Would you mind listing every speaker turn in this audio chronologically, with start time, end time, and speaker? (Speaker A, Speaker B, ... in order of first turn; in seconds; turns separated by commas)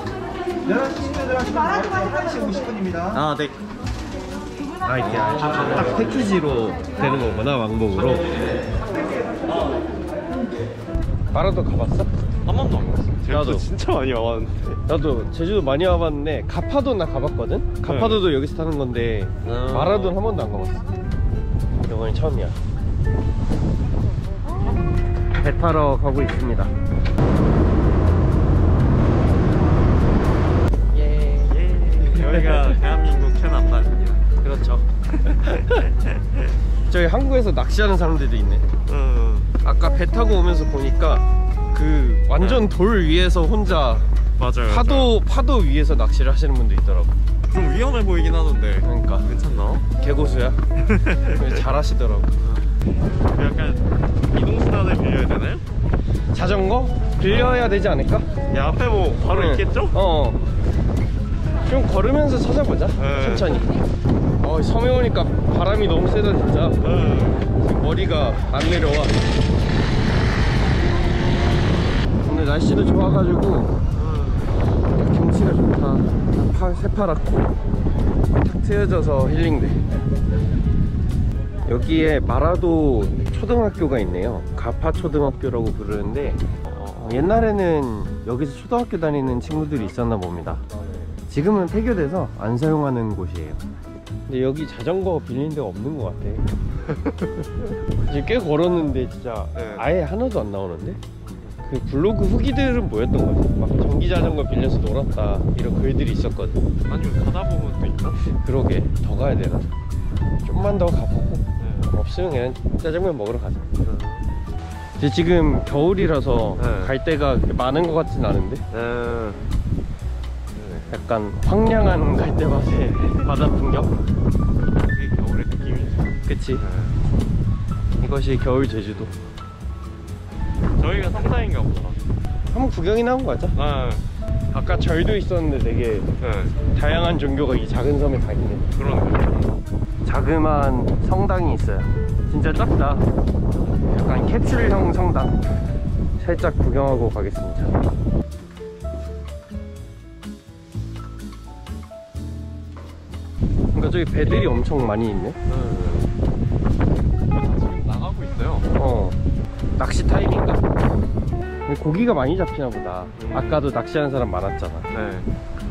Speaker A: 1.0-3.0, Speaker B: 3.0-3.6, Speaker C: 4.8-8.3, Speaker B: 5.0-6.3, Speaker B: 7.1-7.5, Speaker C: 11.3-12.1, Speaker B: 12.4-14.8, Speaker C: 13.3-13.7, Speaker C: 14.9-20.9, Speaker B: 17.8-18.2, Speaker B: 19.4-20.2, Speaker C: 21.8-22.6, Speaker C: 25.4-26.7, Speaker C: 30.9-31.6, Speaker B: 31.4-34.3, Speaker C: 32.2-32.7, Speaker C: 34.4-34.9, Speaker B: 35.2-36.2, Speaker C: 36.9-38.7, Speaker B: 38.9-39.5, Speaker C: 39.6-44.1, Speaker B: 42.4-42.7, Speaker B: 44.4-45.1, Speaker C: 44.6-47.1, Speaker B: 47.5-49.9, Speaker C: 48.8-49.3, Speaker C: 50.0-50.6, Speaker B: 50.8-51.6, Speaker C: 51.3-52.4, Speaker B: 52.4-52.8, Speaker B: 53.3-55.6, Speaker C: 56.3-58.3, Speaker B: 57.2-57.7, Speaker B: 58.5-60.0, Speaker C: 59.2-60.4, Speaker C: 61.7-63.7, Speaker B: 63.0-63.6, Speaker C: 64.4-66.9, Speaker B: 66.8-67.5, Speaker C: 67.6-69.2, Speaker C: 72.2-73.8, Speaker B: 74.0-74.5, Speaker C: 74.9-77.5, Speaker C: 78.4-79.8, Speaker C: 81.7-86.4, Speaker B: 86.7-87.4, Speaker C: 87.0-90.6, Speaker C: 91.3-93.6, Speaker C: 94.3-96.5, Speaker B: 96.9-97.5, Speaker C: 98.1-101.0, Speaker B: 99.5-99.8, Speaker B: 101.2-101.5, Speaker C: 101.7-106.6, Speaker B: 106.8-108.2, Speaker C: 108.2-109.7, Speaker C: 110.4-113.8, Speaker B: 111.6-111.9, Speaker B: 113.8-114.2, Speaker C: 115.0-118.7, Speaker B: 116.6-117.0, Speaker B: 118.7-119.4, Speaker B: 120.5-121.0, Speaker C: 120.9-123.9, Speaker B: 124.7-127.0, Speaker C: 126.3-126.6, Speaker C: 128.0-129.1, Speaker B: 130.8-132.0, Speaker C: 132.5-133.6, Speaker B: 133.6-134.1, Speaker C: 134.5-136.1, Speaker B: 136.2-136.6, Speaker C: 136.7-138.7, Speaker B: 138.7-139.5, Speaker C: 140.1-143.1, Speaker C: 143.9-145.4, Speaker C: 146.2-147.8, Speaker C: 153.7-155.4, Speaker B: 155.5-156.1, Speaker B: 157.3-158.7, Speaker C: 158.8-159.2, Speaker C: 159.8-160.7, Speaker C: 161.7-164.9, Speaker B: 163.2-163.7, Speaker B: 164.9-165.3